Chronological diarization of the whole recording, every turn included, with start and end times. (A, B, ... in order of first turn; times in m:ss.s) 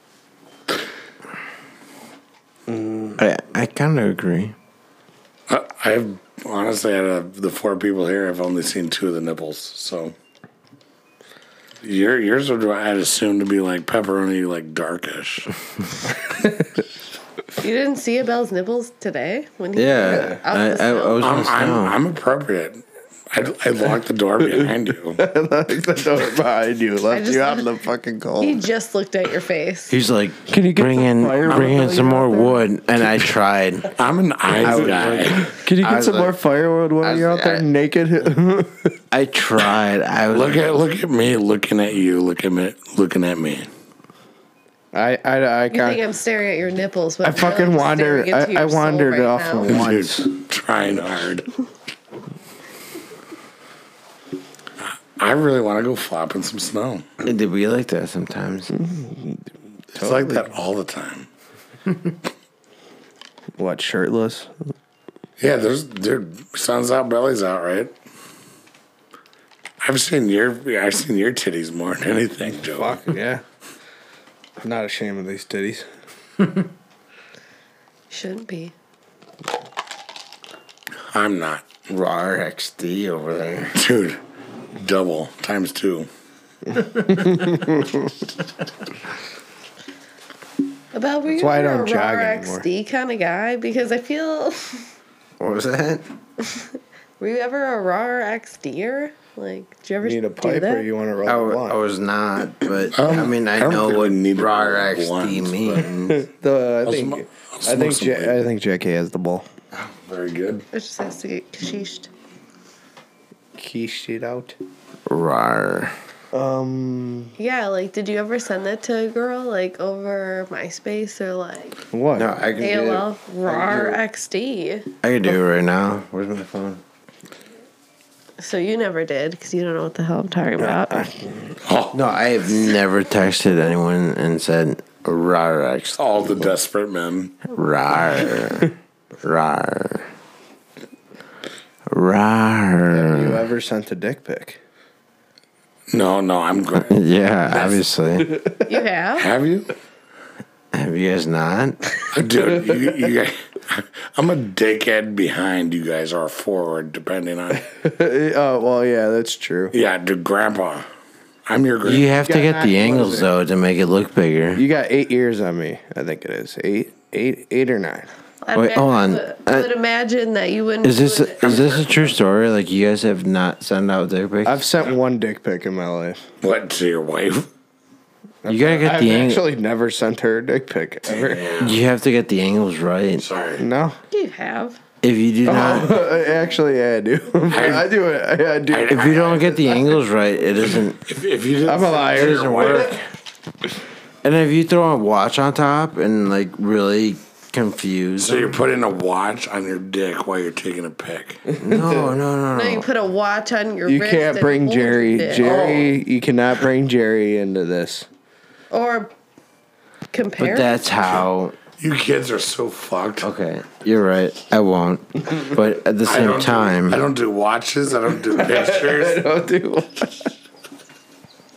0:02.7-0:03.2 A
0:03.2-0:04.6 B
0:05.5-0:10.2 C
0:11.8-0:15.5 C
0:17.6-0:21.3 D
0:19.8-0:22.0 B
0:20.0-0:20.4 A
0:21.2-0:25.2 C
0:24.6-0:28.6 A
0:27.1-0:27.7 D
0:28.4-0:30.0 D
0:29.9-0:33.9 B
0:30.5-0:32.7 A
0:33.9-0:35.4 C
0:34.6-0:36.4 B
0:34.6-0:39.0 A
0:37.0-0:37.6 B
0:39.1-0:40.8 B
0:40.3-0:43.7 C
0:44.9-0:46.0 A
0:45.7-0:49.9 D
0:47.2-0:50.3 A
0:49.7-0:51.5 C
0:54.8-0:57.0 C
0:57.2-0:58.7 B
0:58.7-1:00.4 A
1:00.0-1:01.3 C
1:03.6-1:04.5 A
1:05.4-1:07.9 C
1:09.8-1:13.0 C
1:12.6-1:13.4 A
1:14.6-1:15.9 A
1:18.1-1:18.7 D
1:21.1-1:21.8 C
1:21.9-1:23.8 B
1:23.8-1:24.2 C
1:24.8-1:26.1 C
1:26.8-1:27.5 B
1:27.2-1:27.9 A
1:30.9-1:34.9 D
1:31.3-1:32.6 A
1:35.4-1:36.0 B
1:36.5-1:40.9 D
1:40.0-1:41.8 A
1:41.3-1:46.2 B
1:42.9-1:45.9 C
1:46.1-1:49.5 A
1:46.8-1:48.5 C
1:49.7-1:50.7 C
1:50.7-1:52.1 D
1:53.6-1:54.6 A
1:55.1-1:56.0 B
1:56.3-1:57.3 A
1:57.4-2:01.8 D
2:01.9-2:02.4 A
2:02.2-2:03.0 B
2:02.6-2:04.9 D
2:03.5-2:04.0 A
2:05.0-2:06.8 B
2:08.4-2:11.1 D
2:10.6-2:11.5 A
2:11.6-2:12.0 C
2:11.9-2:16.5 B
2:16.0-2:17.4 C
2:17.5-2:20.1 B
2:21.9-2:23.4 B
2:22.9-2:24.6 A
2:25.9-2:27.8 C
2:26.9-2:28.4 B
2:28.3-2:28.6 A
2:28.6-2:29.3 D
2:29.2-2:29.7 C
2:30.7-2:31.9 B
2:32.1-2:37.7 C
2:37.7-2:39.7 A
2:39.7-2:40.9 C
2:41.5-2:42.1 C
2:41.8-2:44.6 B
2:42.0-2:43.3 A
2:44.6-2:48.1 A
2:48.4-2:51.8 D
2:48.6-2:49.7 B
2:50.8-2:54.7 B
2:51.4-2:52.1 C
2:54.4-2:56.2 A
2:56.4-2:57.5 C
2:58.4-3:01.5 A
2:58.5-2:59.4 B
3:01.1-3:01.8 C
3:01.6-3:03.2 B
3:03.2-3:03.6 C
3:03.6-3:04.0 A
3:04.1-3:04.8 D
3:05.0-3:06.0 B
3:05.4-3:09.4 A
3:07.5-3:07.9 C
3:08.7-3:09.8 C
3:08.9-3:11.0 B
3:11.0-3:13.0 C
3:11.6-3:13.0 A
3:12.0-3:13.0 B
3:14.2-3:18.6 B
3:18.2-3:21.5 C
3:21.6-3:22.2 A
3:21.6-3:22.9 B
3:22.5-3:25.8 D
3:23.9-3:28.1 A
3:25.4-3:25.9 C
3:28.7-3:29.1 D
3:30.1-3:30.9 D
3:30.4-3:31.6 B
3:31.8-3:33.3 C
3:33.2-3:37.0 B
3:36.0-3:39.3 C
3:38.4-3:40.3 A